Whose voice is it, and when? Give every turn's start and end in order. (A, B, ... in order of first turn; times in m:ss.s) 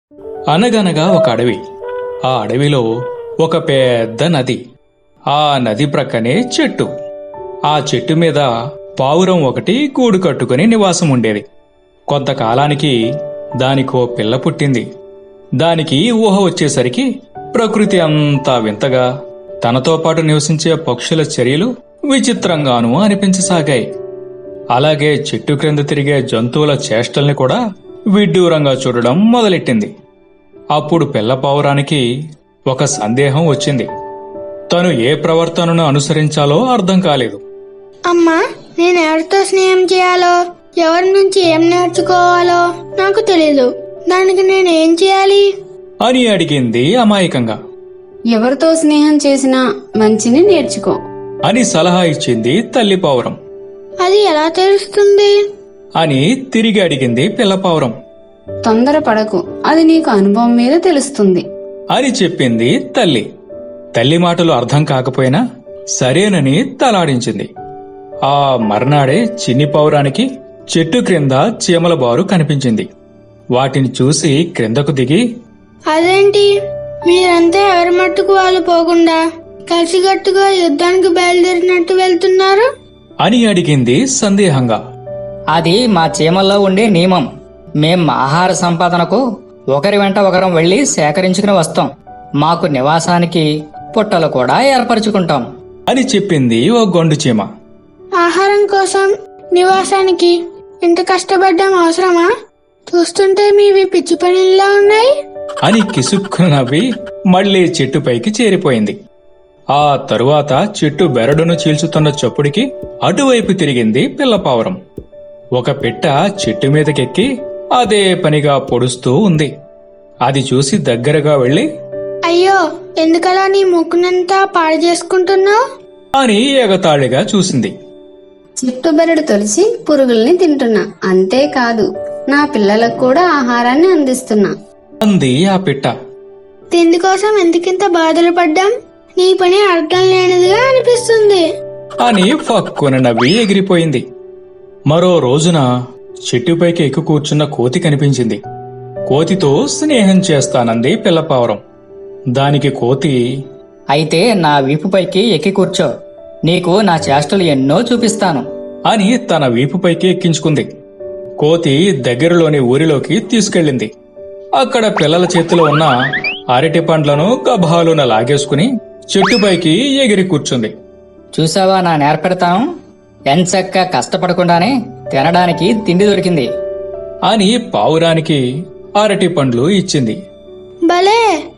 0:00.5-0:01.6 A
0:02.2-0:02.8 A
0:03.4-0:04.6 A
0:05.3-0:06.9 A
0:07.7-0:11.4 A
0:12.1-0:12.9 A
0:13.6-0:14.8 A
0:15.6-0:19.1 A
0:19.6-0:23.8 A
0:24.7-0:27.6 A
0:28.1-0:29.9 A
0:30.7-0:32.0 A
0:32.7-0:33.9 A
0:34.7-0:37.4 A
0:38.1-0:45.4 B
0:46.0-0:47.6 A
0:48.3-0:51.0 C
0:51.4-0:53.4 A
0:54.0-0:55.3 B
0:56.0-0:57.9 A
0:58.6-1:01.4 C
1:01.9-1:03.2 A
1:03.9-1:05.4 A
1:06.0-1:07.5 A
1:08.2-1:12.8 A
1:13.5-1:15.2 A
1:15.9-1:16.5 B
1:17.0-1:22.7 B
1:23.2-1:24.8 A
1:25.5-1:27.3 D
1:27.8-1:31.9 D
1:32.4-1:35.4 D
1:35.9-1:37.5 A
1:38.2-1:42.3 B
1:42.9-1:45.1 B
1:45.6-1:48.9 A
1:49.7-1:54.8 A
1:55.6-1:59.5 A
2:00.2-2:01.6 A
2:02.3-2:05.6 B
2:06.1-2:07.7 A
2:08.6-2:14.5 C
2:15.0-2:15.9 A
2:16.7-2:21.4 B
2:22.0-2:24.0 A
2:24.9-2:25.6 A
2:26.3-2:28.4 A
2:29.1-2:31.6 A
2:32.3-2:33.2 A
2:33.9-2:35.9 D
2:36.4-2:38.4 D
2:38.9-2:40.6 A
2:41.4-2:43.9 A
2:44.6-2:45.9 A
2:46.5-2:50.7 A
2:51.3-2:52.6 D
2:53.3-2:56.5 D
2:57.3-2:58.4 A
2:59.0-3:00.2 A
3:00.9-3:01.2 B